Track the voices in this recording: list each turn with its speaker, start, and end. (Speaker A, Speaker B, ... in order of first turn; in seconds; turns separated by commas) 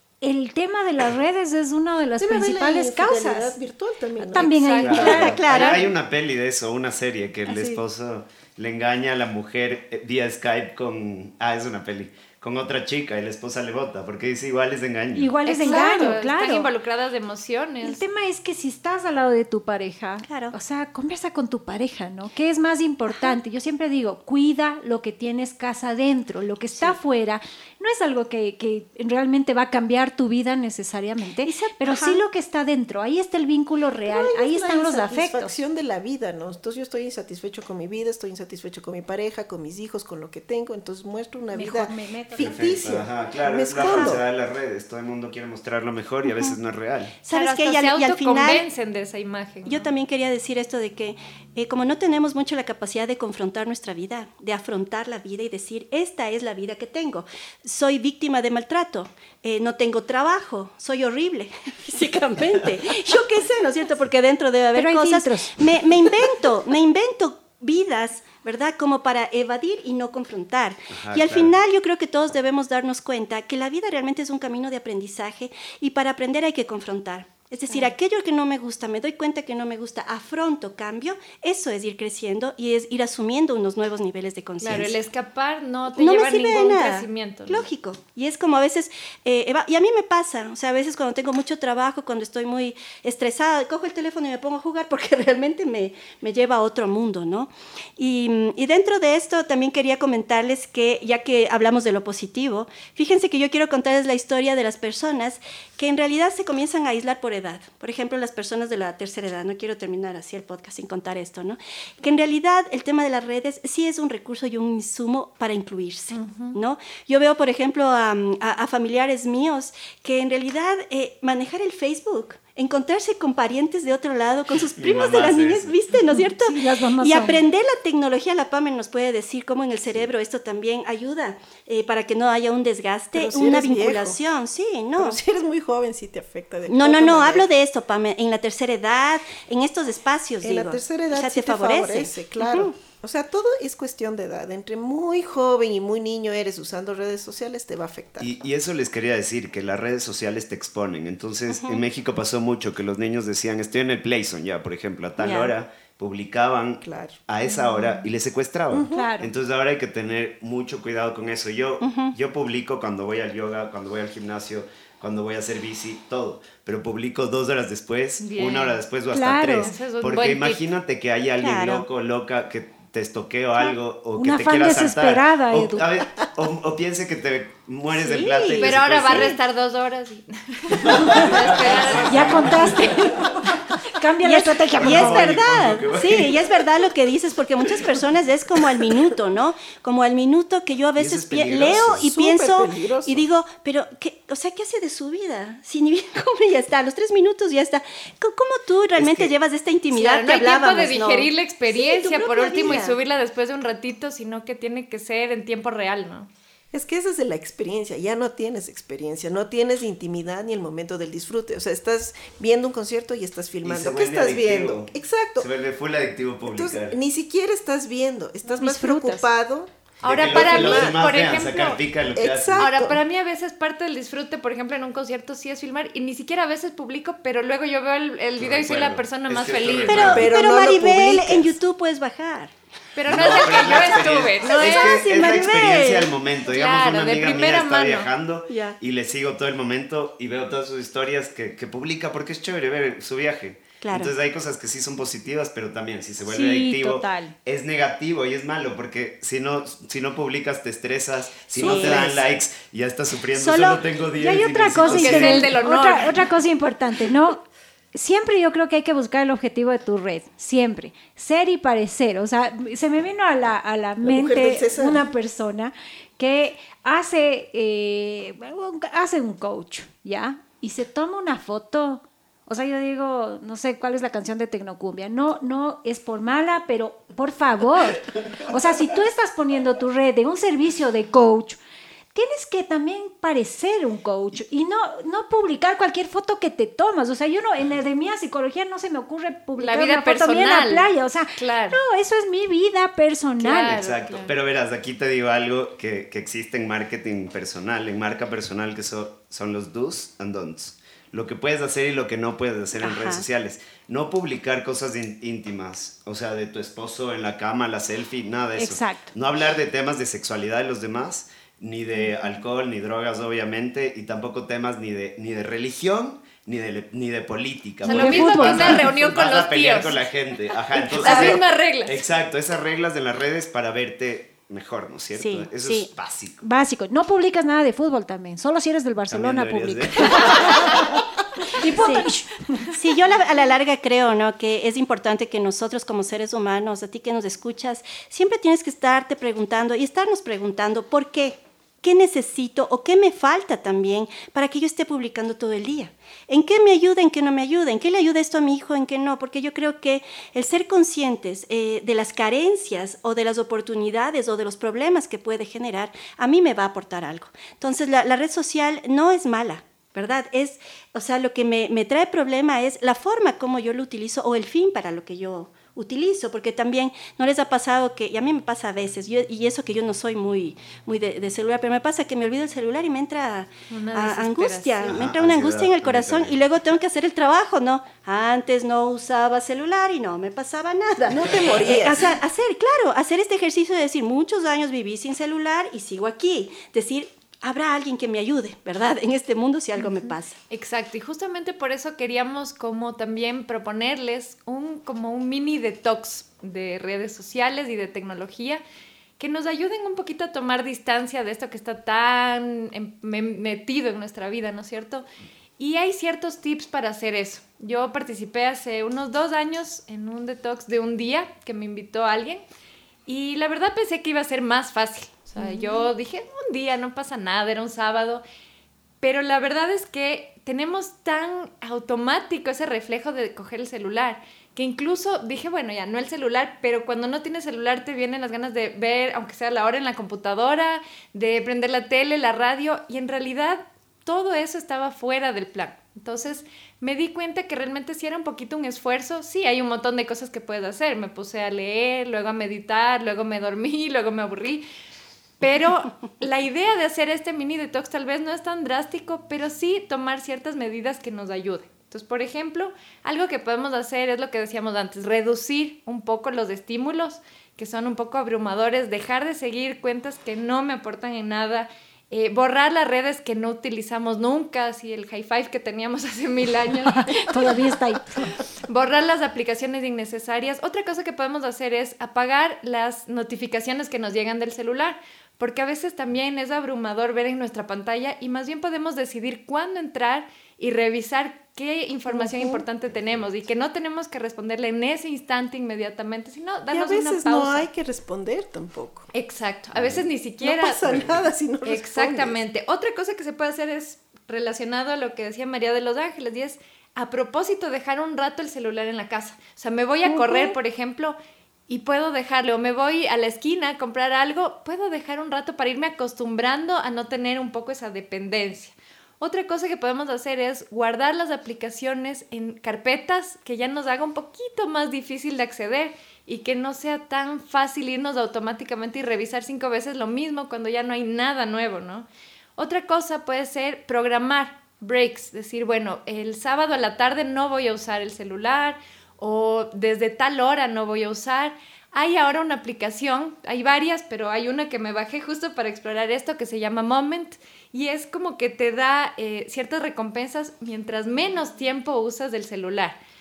Speaker A: 0.2-3.6, Speaker B: 2.2-4.6, Speaker A: 4.2-5.4, Speaker C: 4.5-5.8, Speaker D: 4.8-15.4, Speaker E: 4.9-5.9, Speaker A: 7.5-7.8, Speaker A: 15.1-16.7, Speaker C: 15.4-18.0, Speaker A: 17.8-35.5, Speaker E: 20.3-20.6, Speaker E: 23.1-23.4, Speaker E: 31.4-32.2, Speaker B: 34.1-44.2, Speaker A: 41.5-42.7, Speaker D: 42.4-47.2, Speaker E: 43.7-44.2, Speaker E: 46.2-46.6, Speaker E: 47.2-48.7, Speaker C: 47.3-49.9, Speaker E: 49.6-85.0, Speaker A: 64.8-65.6, Speaker D: 70.9-71.6, Speaker C: 77.7-77.9, Speaker C: 84.6-87.7, Speaker E: 86.0-135.2, Speaker C: 116.1-116.6, Speaker D: 124.8-125.7, Speaker A: 126.5-127.4, Speaker B: 133.1-134.2, Speaker B: 135.0-137.5, Speaker E: 136.7-142.7, Speaker B: 140.4-148.4, Speaker D: 148.2-179.4, Speaker E: 151.5-151.8, Speaker E: 155.2-155.5, Speaker B: 156.8-157.2, Speaker C: 157.4-158.0, Speaker B: 158.7-159.1, Speaker A: 158.9-159.3, Speaker E: 161.8-162.1, Speaker C: 168.2-168.8, Speaker A: 169.1-169.7, Speaker C: 169.6-170.6, Speaker E: 171.4-171.9, Speaker A: 173.6-175.9, Speaker E: 177.9-179.4, Speaker C: 178.6-183.1, Speaker D: 180.8-183.1, Speaker A: 181.9-183.3, Speaker A: 183.9-185.4, Speaker E: 184.2-203.0, Speaker D: 184.8-186.7, Speaker D: 191.0-192.1, Speaker B: 191.9-193.3, Speaker D: 199.0-199.4, Speaker C: 199.9-206.3, Speaker B: 206.7-215.5, Speaker D: 213.6-217.0, Speaker B: 216.4-221.0, Speaker A: 218.5-219.3, Speaker C: 220.0-221.8, Speaker D: 220.1-222.7, Speaker B: 222.1-223.0, Speaker C: 222.6-230.2, Speaker D: 228.4-230.3, Speaker E: 229.9-232.5, Speaker B: 230.1-231.6, Speaker C: 233.0-235.0, Speaker D: 233.1-255.6, Speaker E: 233.1-236.2, Speaker C: 236.4-238.1, Speaker E: 238.5-238.8, Speaker E: 243.8-244.1, Speaker A: 246.2-247.4, Speaker E: 251.6-252.2, Speaker A: 251.6-252.1, Speaker E: 253.3-253.8, Speaker A: 254.2-281.6, Speaker C: 254.8-256.2, Speaker B: 264.0-265.1, Speaker A: 282.1-293.8, Speaker C: 289.6-291.8, Speaker C: 293.4-294.3, Speaker D: 293.7-326.4, Speaker E: 302.8-303.2, Speaker A: 308.6-309.1, Speaker A: 317.8-318.9, Speaker C: 317.9-320.1, Speaker C: 320.7-322.0, Speaker E: 325.2-325.9, Speaker A: 326.4-330.9, Speaker D: 329.1-331.0, Speaker A: 331.5-332.7, Speaker E: 331.8-332.1, Speaker E: 332.7-390.4, Speaker C: 373.7-375.0, Speaker D: 374.9-376.4, Speaker B: 381.1-382.2, Speaker C: 390.5-398.6, Speaker C: 399.2-405.1, Speaker C: 405.6-412.4, Speaker C: 413.1-418.2, Speaker C: 419.0-444.6, Speaker C: 445.4-467.5, Speaker A: 467.1-468.4, Speaker C: 468.7-487.7, Speaker B: 482.1-482.6, Speaker D: 482.9-483.3, Speaker B: 486.7-489.1, Speaker C: 489.1-491.1, Speaker D: 489.8-490.0, Speaker B: 490.4-492.4, Speaker C: 491.6-501.2, Speaker C: 501.7-543.0